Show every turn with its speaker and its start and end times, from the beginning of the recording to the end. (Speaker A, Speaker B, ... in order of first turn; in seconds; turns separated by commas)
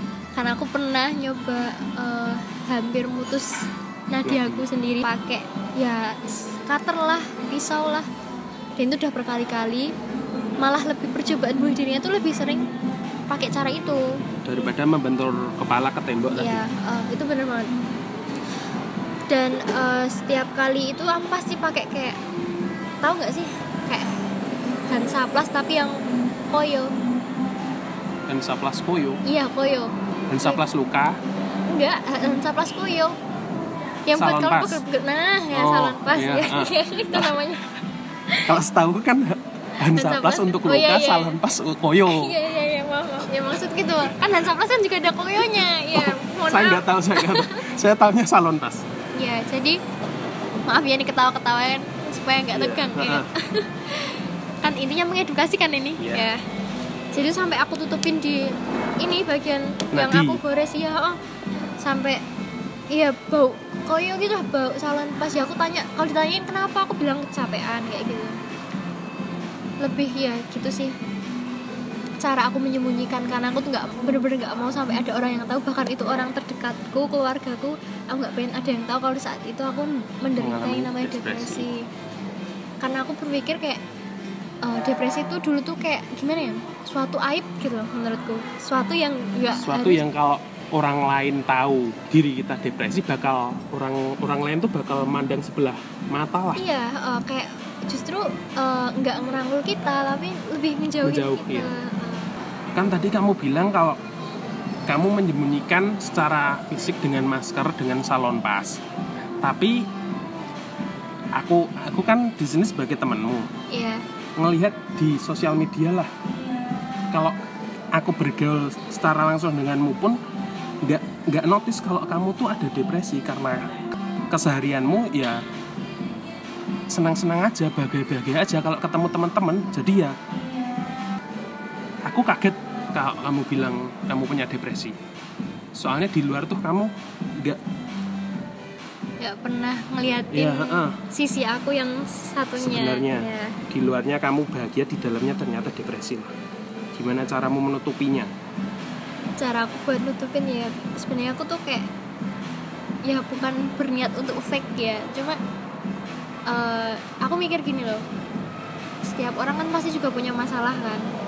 Speaker A: 0.4-8.1, Speaker B: 4.2-4.7, Speaker A: 8.8-9.9, Speaker A: 10.6-12.7, Speaker A: 13.3-14.1, Speaker B: 14.4-16.6, Speaker A: 16.4-17.7, Speaker A: 19.3-22.2, Speaker A: 23.0-24.1, Speaker A: 24.9-26.0, Speaker A: 26.5-26.9, Speaker B: 28.3-29.2, Speaker A: 29.2-30.6, Speaker B: 30.3-31.2, Speaker A: 31.7-33.1, Speaker A: 34.1-37.6, Speaker B: 34.2-34.8, Speaker B: 35.5-37.3, Speaker B: 38.5-42.3, Speaker A: 39.8-41.4, Speaker A: 42.1-47.6, Speaker B: 45.9-48.9, Speaker A: 49.1-49.8, Speaker A: 50.7-56.4, Speaker B: 52.5-53.3, Speaker B: 56.0-56.2, Speaker A: 57.1-61.2, Speaker B: 59.9-60.4, Speaker A: 61.8-62.2, Speaker A: 62.9-68.4, Speaker A: 69.8-71.0, Speaker A: 72.2-81.9, Speaker B: 80.4-81.7, Speaker A: 82.8-83.8, Speaker A: 84.6-90.0, Speaker B: 89.6-96.6, Speaker A: 96.6-102.4, Speaker B: 101.0-101.7, Speaker B: 102.8-104.0, Speaker B: 104.9-108.8, Speaker B: 109.4-109.9, Speaker B: 111.3-113.5, Speaker A: 113.7-114.0, Speaker B: 114.4-116.1, Speaker B: 118.0-120.2, Speaker B: 120.8-123.8, Speaker B: 124.3-125.4, Speaker B: 126.9-130.1, Speaker B: 132.0-134.9, Speaker B: 135.8-137.6, Speaker A: 139.2-143.6, Speaker B: 140.3-141.0, Speaker B: 142.6-146.3, Speaker B: 146.9-148.3, Speaker A: 149.4-151.9, Speaker A: 153.1-155.4, Speaker A: 156.5-158.0, Speaker A: 159.0-161.1